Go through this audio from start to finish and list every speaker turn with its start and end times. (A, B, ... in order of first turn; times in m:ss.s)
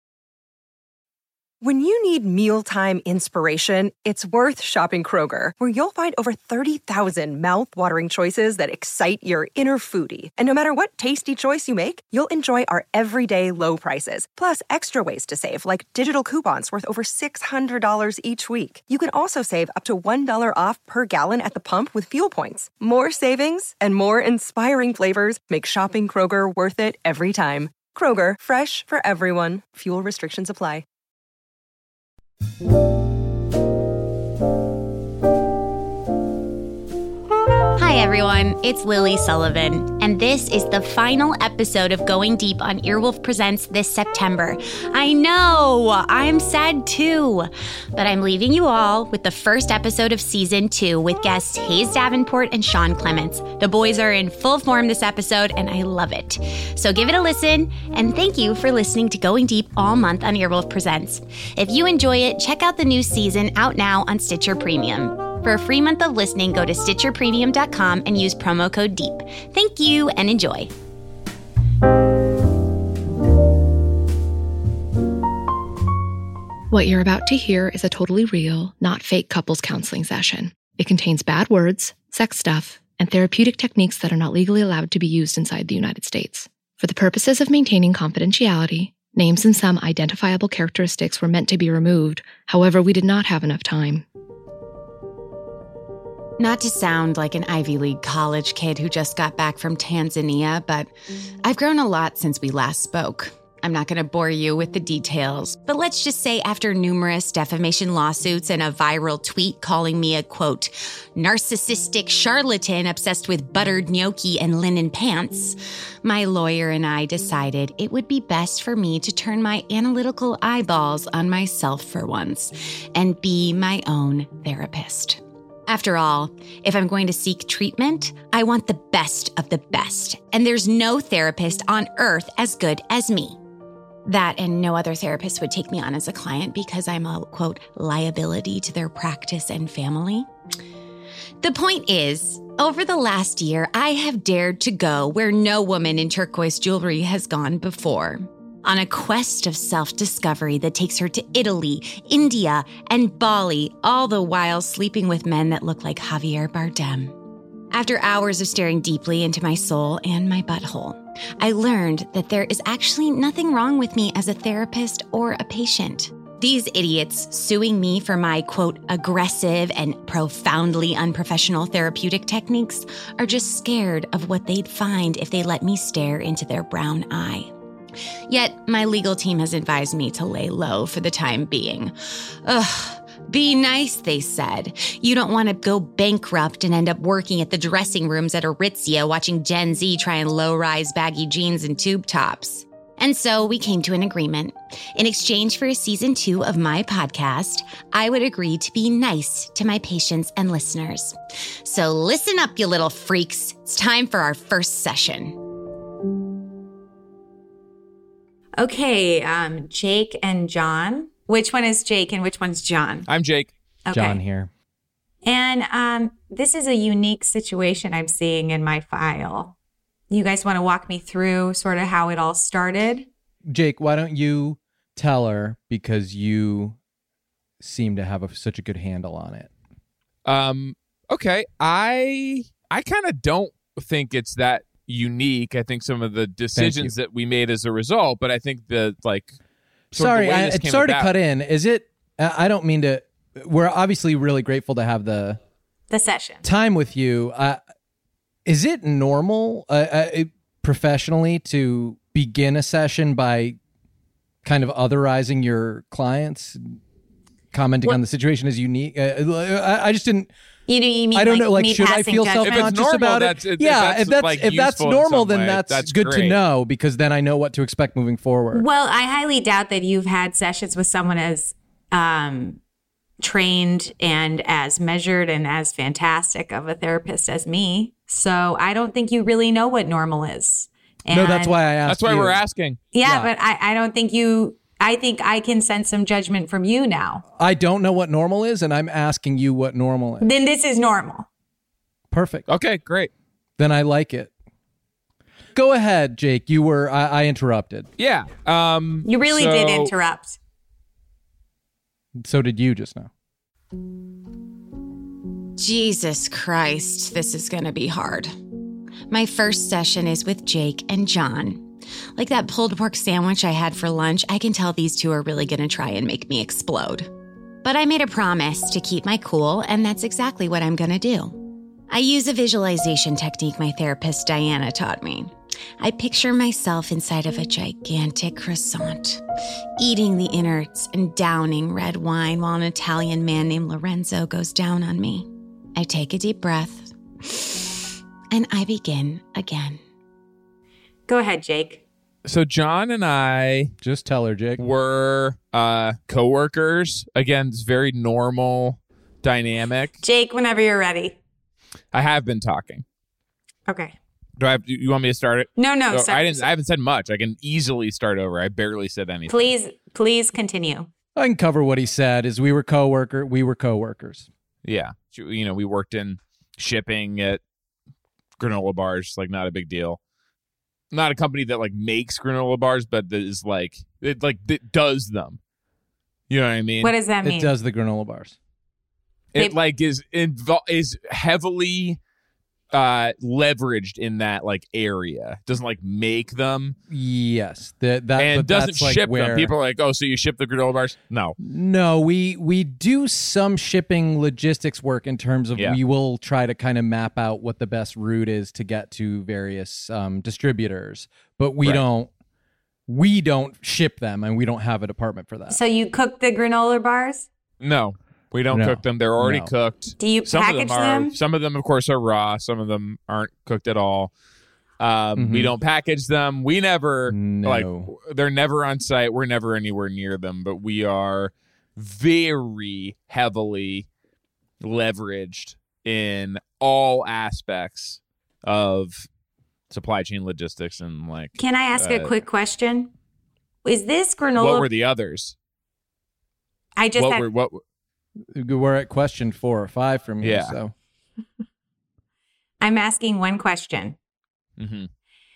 0:01.6-0:30.8 A
0:37.8-1:10.7 B
1:16.7-1:34.0 C
1:36.4-1:40.9 B
1:41.4-2:13.4 B
2:14.0-2:20.3 B
2:21.4-2:37.2 B
2:37.7-2:57.5 B
2:58.3-3:25.4 B
3:28.6-3:33.1 D
3:33.1-3:33.5 E
3:33.9-3:34.2 D
3:33.9-3:34.5 F
3:35.2-3:39.5 D
3:40.1-3:43.1 D
3:43.5-3:46.8 F
3:47.6-3:49.5 F
3:50.2-3:59.3 E
3:56.6-3:56.9 F
3:59.9-4:01.1 E
3:59.9-4:05.4 F
4:05.9-4:06.4 D
4:06.4-4:07.6 F
4:08.4-4:13.6 F
4:14.4-4:16.8 F
4:17.5-4:20.3 F
4:20.7-4:22.7 D
4:21.1-4:28.6 F
4:22.4-4:26.4 E
4:28.5-4:32.6 D
4:33.2-4:41.5 D
4:41.1-4:42.4 F
4:41.8-4:42.8 E
4:42.9-4:47.2 D
4:43.0-4:43.3 F
4:47.4-4:50.3 F
4:50.2-4:51.3 D
4:52.1-4:52.4 F
4:52.5-4:53.1 E
4:53.6-4:54.3 F
4:55.5-4:57.9 F
4:58.0-4:59.9 E
4:59.0-5:00.4 D
5:02.2-5:03.1 F
5:05.6-5:08.3 B
5:09.1-5:11.6 B
5:12.2-5:17.1 B
5:17.6-5:29.2 B
5:29.8-5:39.8 B
5:41.1-5:41.8 D
5:42.2-5:43.7 E
5:43.8-5:44.6 F
5:44.6-5:49.9 E
5:50.0-5:51.2 D
5:51.9-5:52.8 E
5:53.7-5:54.0 D
5:54.4-5:59.5 E
5:55.6-5:56.5 D
5:59.3-6:00.9 D
6:01.2-6:04.3 F
6:04.6-6:07.4 E
6:08.4-6:10.0 E
6:10.9-6:15.4 E
6:16.3-6:16.9 E
6:16.8-6:17.5 D
6:17.2-6:18.4 F
6:19.3-6:22.0 E
6:22.7-6:26.8 E
6:26.9-6:29.5 F
6:28.2-6:31.4 E
6:31.4-6:42.1 F
6:42.9-6:45.6 F
6:45.5-6:47.3 D
6:47.6-6:54.1 E
6:48.5-6:49.5 F
6:50.0-6:51.2 D
6:54.8-7:03.9 E
6:55.2-6:55.5 F
6:57.1-6:57.9 F
7:04.6-7:09.1 E
7:09.7-7:12.1 E
7:11.4-7:12.9 D
7:13.6-7:14.7 D
7:14.4-7:15.3 E
7:16.8-7:17.2 D
7:17.0-7:17.6 E
7:18.3-7:20.7 F
7:20.2-7:20.6 E
7:22.6-7:24.0 D
7:24.6-7:24.9 E